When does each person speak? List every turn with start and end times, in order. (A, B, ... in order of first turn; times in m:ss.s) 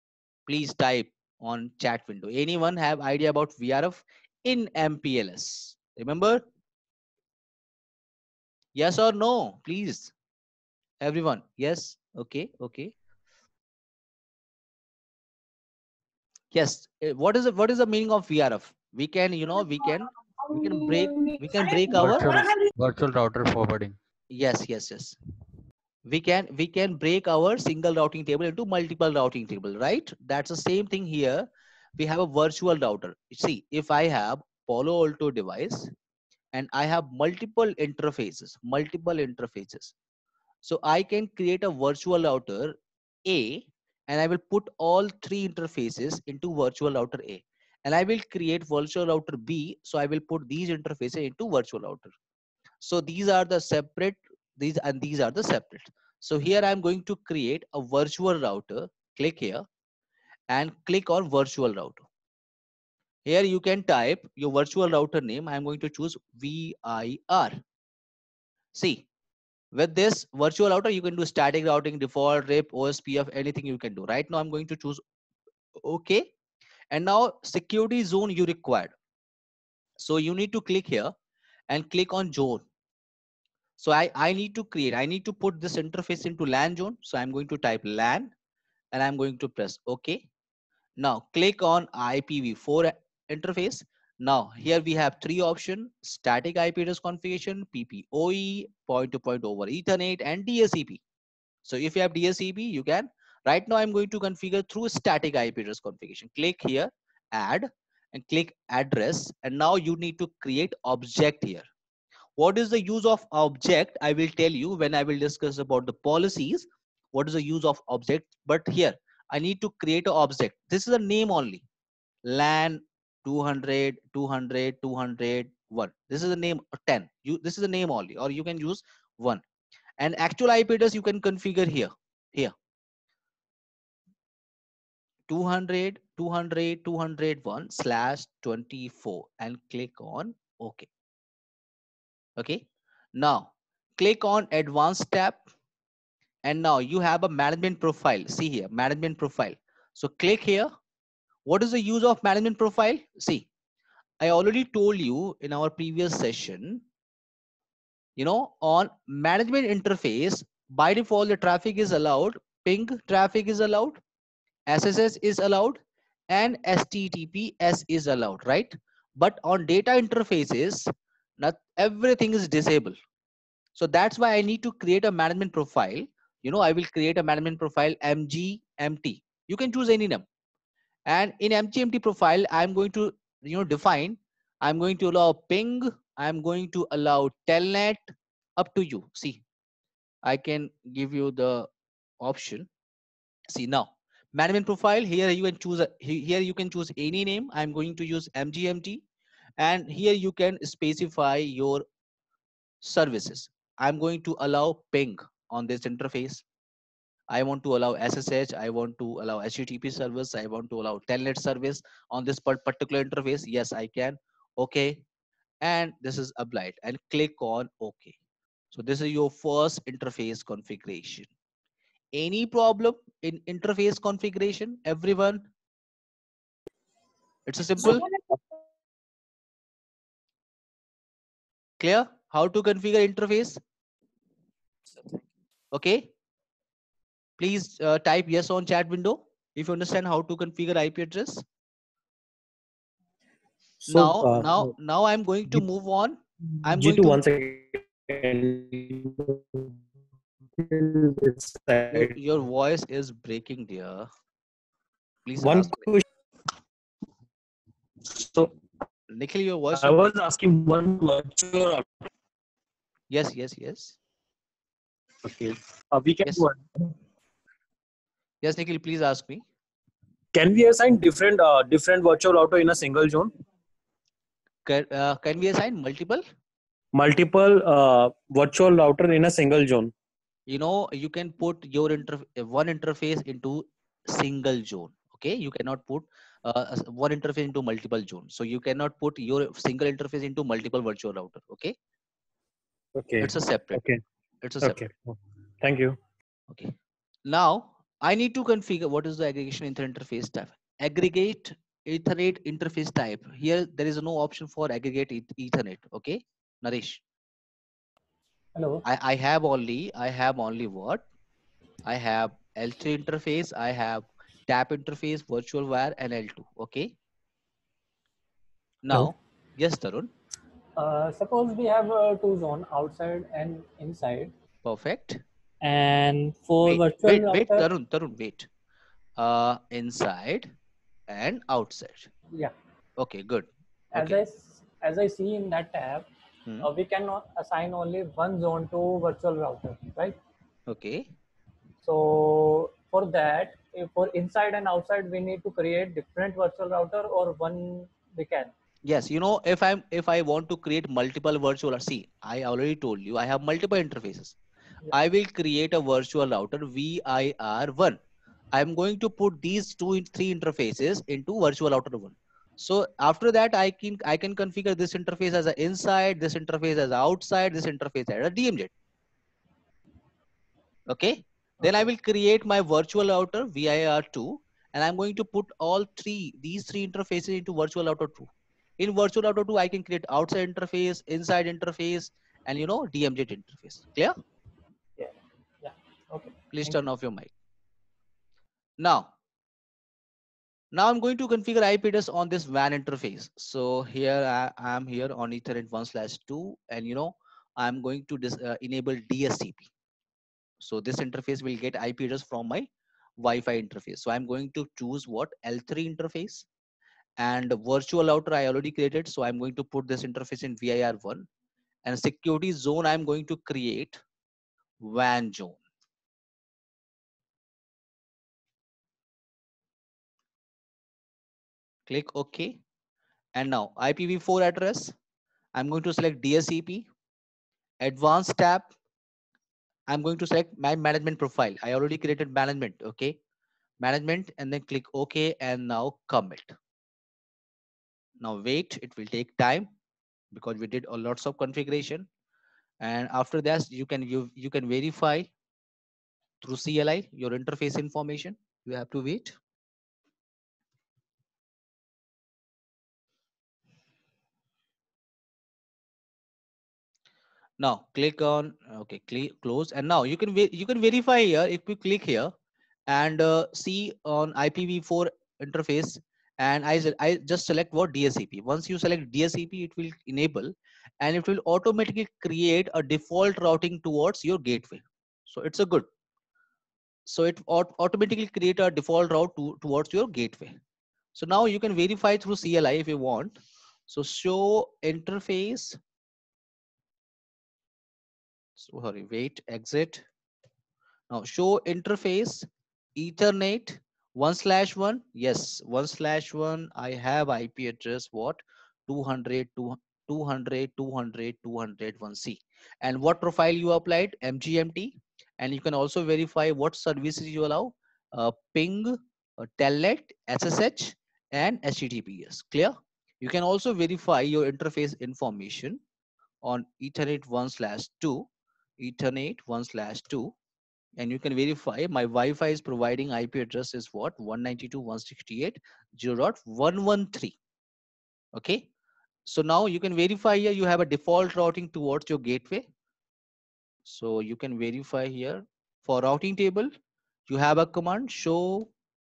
0:00.5-0:06.4 A
0:08.7-0:10.1 A
0:11.0-0:12.9 A
0:16.5-0:22.3 A
0:21.9-0:24.0 B
0:24.3-0:25.1 A
0:26.0-0:35.9 A
0:36.5-0:39.9 A
0:40.6-0:52.1 A
0:52.8-0:59.6 A
1:00.5-1:02.0 A
1:03.2-1:07.6 A
1:08.7-1:09.0 A
1:09.7-1:15.0 A
1:15.8-1:16.3 A
1:16.9-1:18.9 A
1:20.0-1:21.1 A
1:21.7-1:22.6 A
1:23.8-1:28.3 A
1:28.9-1:30.2 A
1:31.0-1:41.0 A
1:41.6-1:51.6 A
1:52.4-2:01.6 A
2:02.2-2:09.4 A
2:10.0-2:12.5 A
2:15.3-2:20.9 A
2:22.4-2:22.6 A
2:23.1-2:25.4 A
2:26.4-2:30.7 A
2:31.5-2:33.5 A
2:34.2-2:36.8 A
2:38.2-2:44.0 A
2:44.7-2:45.8 A
2:46.3-2:53.0 A
2:53.7-3:00.2 A
3:01.1-3:09.4 A
3:10.2-3:11.7 A
3:12.2-3:12.7 A
3:13.5-3:19.0 A
3:19.6-3:21.8 A
3:22.8-3:26.4 A
3:27.3-3:35.0 A
3:35.6-3:38.1 A
3:38.7-3:41.3 A
3:42.1-3:45.5 A
3:47.5-3:48.1 A
3:51.8-3:53.6 A
3:55.7-3:56.1 A
3:57.4-4:01.4 A
4:03.9-4:04.7 C
4:03.9-4:07.2 A
4:06.6-4:09.7 C
4:10.6-4:12.1 C
4:11.9-4:14.1 A
4:15.2-4:15.8 A
4:15.4-4:16.0 C
4:18.1-4:18.5 C
4:19.1-4:20.0 A
4:19.7-4:21.9 C
4:23.1-4:24.0 A
4:25.2-4:26.7 C
4:28.4-4:29.4 A
4:30.3-4:33.3 C
4:34.6-4:36.2 A
4:36.9-4:39.9 C
4:40.5-4:51.7 A
4:52.9-4:54.0 C
4:53.2-4:53.8 A
4:54.4-4:54.8 A
4:54.6-4:56.0 C
4:57.3-5:07.0 A
5:08.5-5:08.8 D
5:08.8-5:11.0 A
5:11.8-5:16.9 A
5:18.8-5:20.1 A
5:20.8-5:24.3 D
5:24.6-5:25.2 A
5:25.6-5:27.7 D
5:26.6-5:28.5 A
5:29.2-5:30.5 A
5:31.1-5:32.1 A
5:33.0-5:34.2 A
5:33.9-5:36.1 D
5:36.6-5:40.2 D
5:40.7-5:41.1 A
5:41.8-5:48.5 D
5:48.8-5:54.4 A
5:54.9-5:58.0 A
5:58.5-6:08.7 A
6:10.9-6:24.1 A
6:25.0-6:26.8 D
6:26.5-6:27.3 A
6:28.8-6:29.1 A
6:30.7-6:39.7 A
6:40.6-6:46.4 A
6:47.2-6:51.2 A
6:51.8-6:54.0 A
6:54.8-6:55.6 A
7:01.9-7:02.6 A
7:03.3-7:04.9 A
7:05.5-7:06.9 A
7:07.8-7:08.7 A
7:09.9-7:13.2 A
7:13.8-7:16.6 A
7:18.2-7:19.7 A
7:20.3-7:22.1 A
7:22.8-7:25.3 A
7:26.4-7:29.4 A
7:37.6-7:42.3 A
7:42.9-7:55.9 A
7:57.1-8:00.6 A
8:01.1-8:05.8 A
8:08.6-8:10.0 A
8:11.1-8:35.8 A
8:36.4-8:38.3 A
8:38.8-8:40.3 A
8:41.0-8:47.4 A
8:48.3-8:48.7 A
8:49.2-8:52.7 A
8:53.8-8:56.7 A
8:57.3-8:58.7 A